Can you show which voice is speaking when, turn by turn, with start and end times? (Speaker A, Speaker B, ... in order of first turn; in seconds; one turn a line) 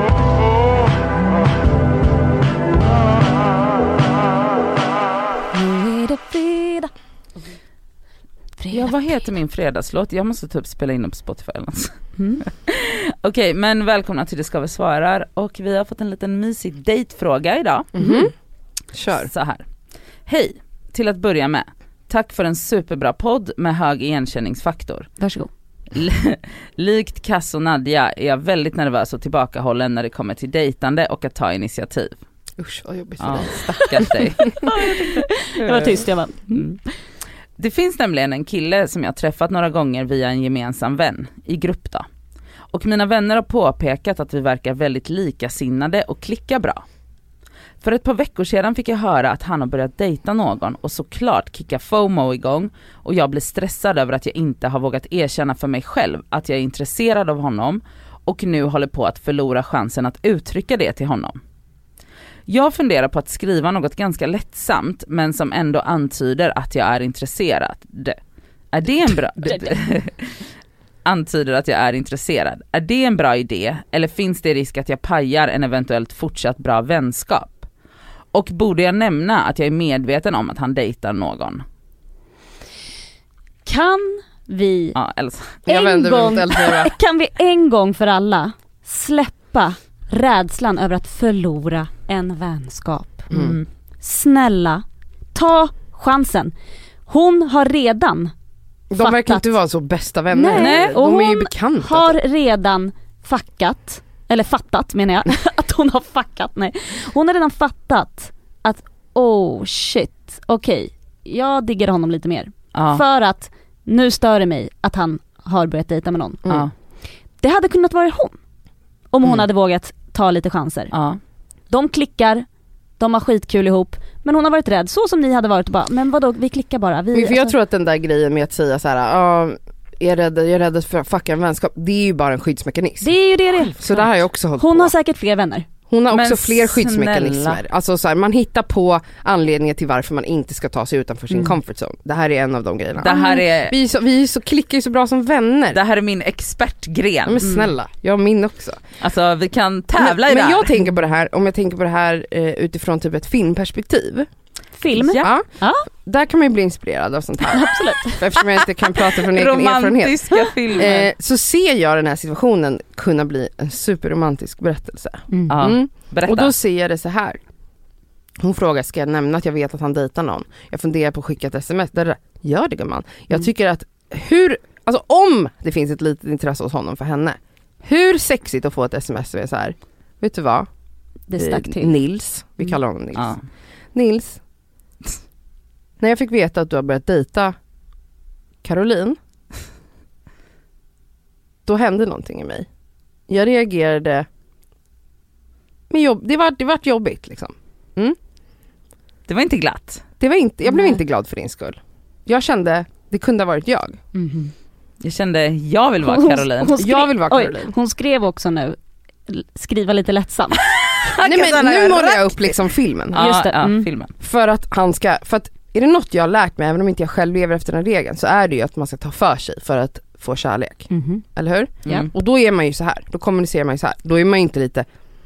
Speaker A: 5.5-6.9
Speaker A: 8.6-9.1
Speaker B: 8.7-17.9
Speaker C: 17.9-18.3
Speaker A: 18.0-18.2
Speaker C: 18.9-19.3
Speaker B: 19.1-19.7
Speaker B: 20.2-25.1
Speaker A: 25.2-25.5
Speaker B: 25.9-32.2
Speaker C: 32.6-34.7
Speaker B: 33.2-35.0
Speaker A: 34.5-36.8
Speaker C: 35.6-35.9
Speaker B: 35.7-36.0
Speaker B: 37.6-42.0
Speaker B: 42.7-46.8
Speaker B: 47.8-61.4
Speaker B: 62.5-68.2
Speaker B: 68.7-70.4
Speaker A: 69.4-69.7
Speaker B: 71.0-77.7
Speaker B: 78.3-81.6
Speaker A: 83.6-85.0
Speaker B: 84.9-85.6
Speaker C: 85.7-86.9
Speaker A: 85.7-93.3
Speaker C: 93.3-93.6
Speaker B: 93.3-93.7
Speaker A: 94.0-94.8
Speaker A: 95.3-96.5
Speaker A: 97.1-98.3
Speaker C: 98.9-102.2
Speaker A: 99.0-99.5
Speaker A: 100.3-116.5
Speaker B: 100.5-101.0
Speaker B: 112.7-113.0
Speaker A: 117.4-118.3
Speaker A: 119.1-120.9
Speaker B: 120.9-121.2
Speaker A: 121.7-122.4
Speaker A: 123.0-127.5
Speaker C: 127.1-134.9
Speaker A: 133.0-135.7
Speaker C: 135.9-145.8
Speaker B: 136.1-137.6
Speaker B: 143.0-143.7
Speaker B: 145.7-147.4
Speaker C: 147.2-148.8
Speaker A: 147.4-147.7
Speaker B: 149.0-150.8
Speaker C: 149.9-154.3
Speaker A: 154.8-155.8
Speaker B: 154.9-155.3
Speaker C: 155.2-167.4
Speaker A: 157.5-158.2
Speaker B: 159.2-161.1
Speaker A: 165.3-165.6
Speaker B: 165.5-166.5
Speaker C: 168.4-180.7
Speaker A: 181.3-181.9
Speaker C: 181.3-183.4
Speaker B: 183.2-183.4
Speaker C: 183.9-184.4
Speaker C: 186.0-187.5
Speaker C: 188.6-189.2
Speaker C: 191.7-192.7
Speaker C: 193.3-194.3
Speaker C: 195.9-198.2
Speaker B: 199.3-200.0
Speaker C: 200.2-204.0
Speaker A: 200.7-201.0
Speaker A: 204.1-204.5
Speaker B: 205.0-206.8
Speaker A: 206.0-210.6
Speaker C: 206.8-207.7
Speaker B: 210.7-214.1
Speaker C: 211.2-213.3
Speaker A: 213.1-213.9
Speaker C: 214.2-224.9
Speaker A: 220.9-221.2